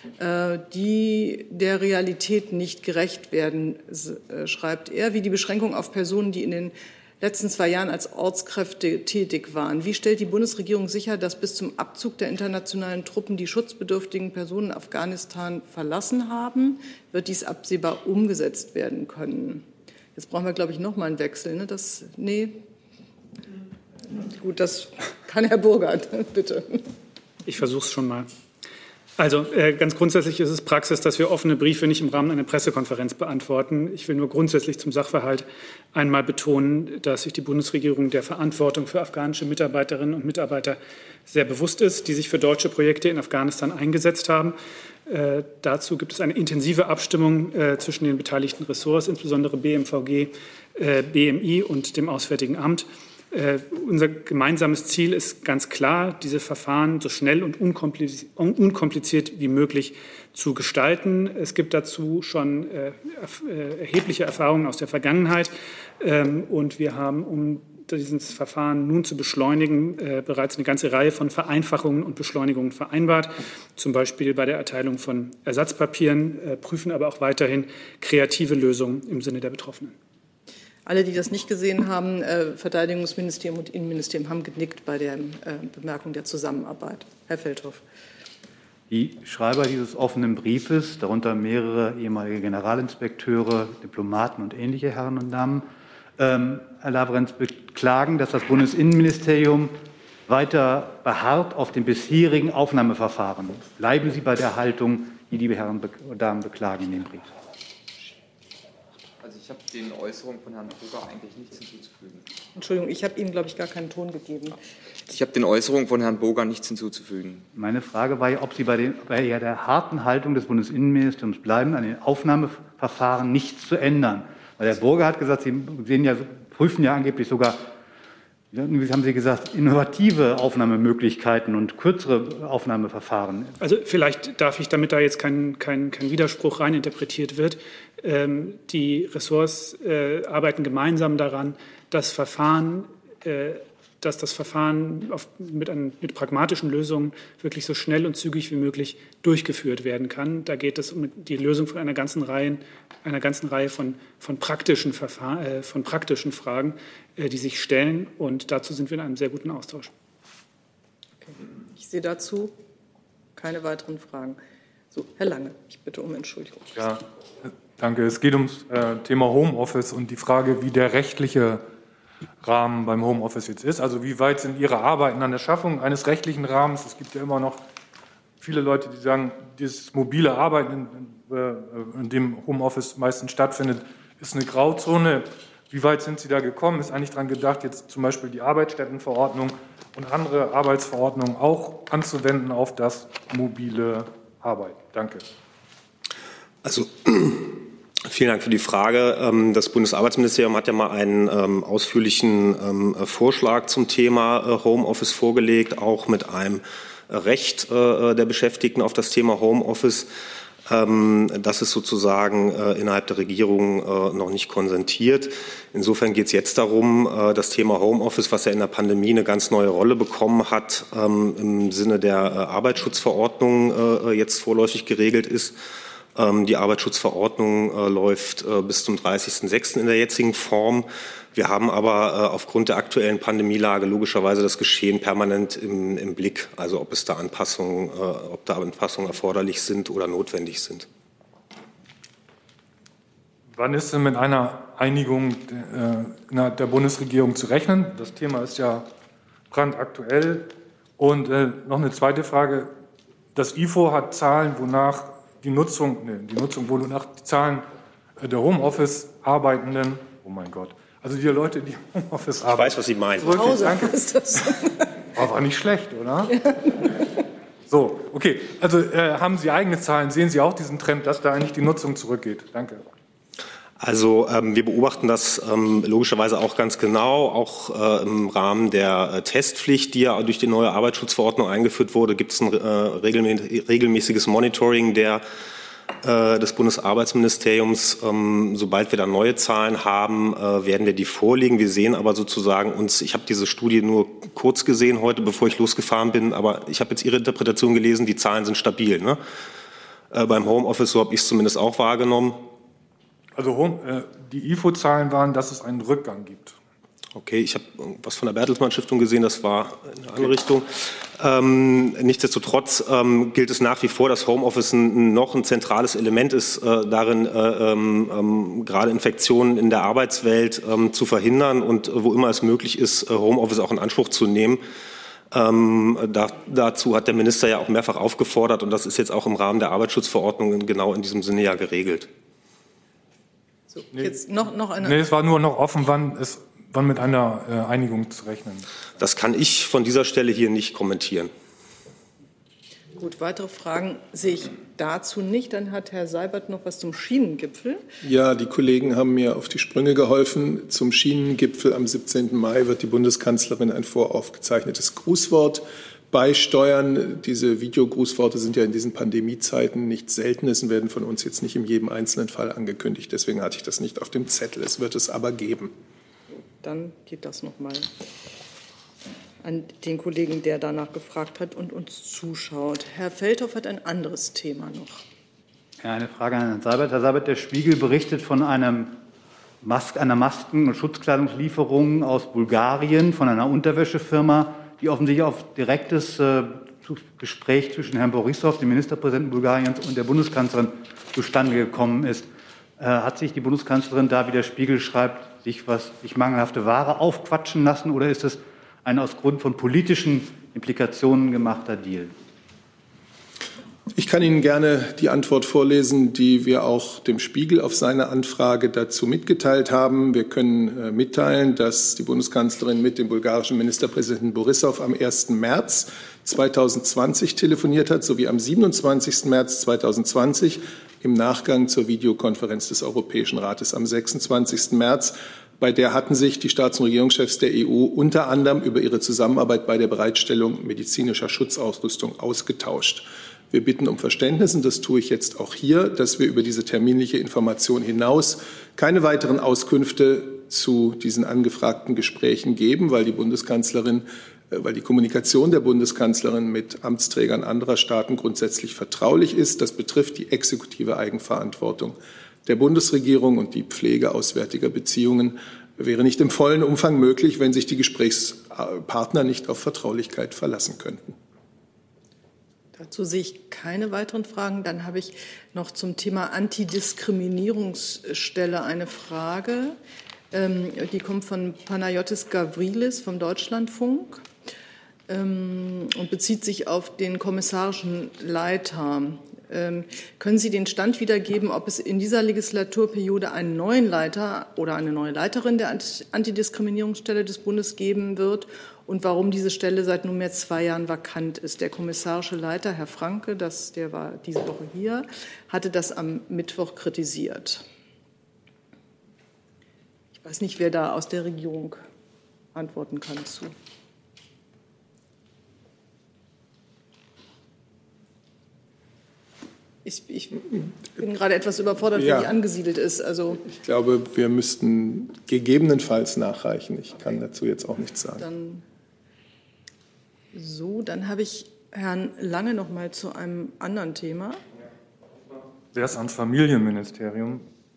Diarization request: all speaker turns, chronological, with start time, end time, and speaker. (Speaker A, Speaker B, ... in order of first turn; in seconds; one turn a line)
Speaker A: 0.2-22.6
Speaker A: 24.1-26.9
Speaker B: 27.4-28.3
Speaker B: 29.2-44.5
Speaker B: 45.1-80.0
Speaker A: 80.9-87.8
Speaker C: 88.9-95.7
Speaker C: 96.2-107.3
Speaker D: 109.2-112.2
Speaker A: 112.5-114.6
Speaker D: 115.1-117.5
Speaker C: 117.5-127.7
Speaker C: 128.5-133.6
Speaker B: 133.6-159.9
Speaker A: 161.2-162.5
Speaker A: 163.4-164.4
Speaker A: 164.9-166.8
Speaker E: 166.7-171.6
Speaker E: 172.4-177.6
Speaker E: 178.4-195.2
Speaker F: 196.6-210.1
Speaker F: 210.7-225.6
Speaker F: 226.1-240.9
Speaker E: 243.5-248.9
Speaker E: 249.5-252.7
Speaker E: 253.3-257.7
Speaker E: 258.2-264.6
Speaker F: 262.5-263.7
Speaker A: 263.3-264.8
Speaker E: 265.1-266.4
Speaker E: 267.7-272.8
Speaker F: 273.8-285.2
Speaker F: 286.0-299.2
Speaker F: 300.1-302.5
Speaker E: 303.4-306.6
Speaker F: 307.1-324.6
Speaker F: 325.3-332.1
Speaker A: 333.7-335.0
Speaker E: 334.8-338.7
Speaker F: 339.0-341.3
Speaker A: 343.0-347.8
Speaker G: 348.0-365.7
Speaker A: 366.4-367.9
Speaker A: 369.4-375.0
Speaker C: 375.8-379.0
Speaker C: 379.6-392.3
Speaker C: 392.8-402.1
Speaker G: 403.9-461.1
Speaker A: 462.8-469.8
Speaker A: 470.3-474.3
Speaker A: 475.1-497.6
Speaker A: 500.2-501.8
Speaker A: 502.6-503.5
Speaker A: 509.8-513.5
Speaker G: 511.9-512.3
Speaker G: 513.5-518.2
Speaker A: 518.2-518.6
Speaker A: 520.3-524.4
Speaker E: 525.7-527.5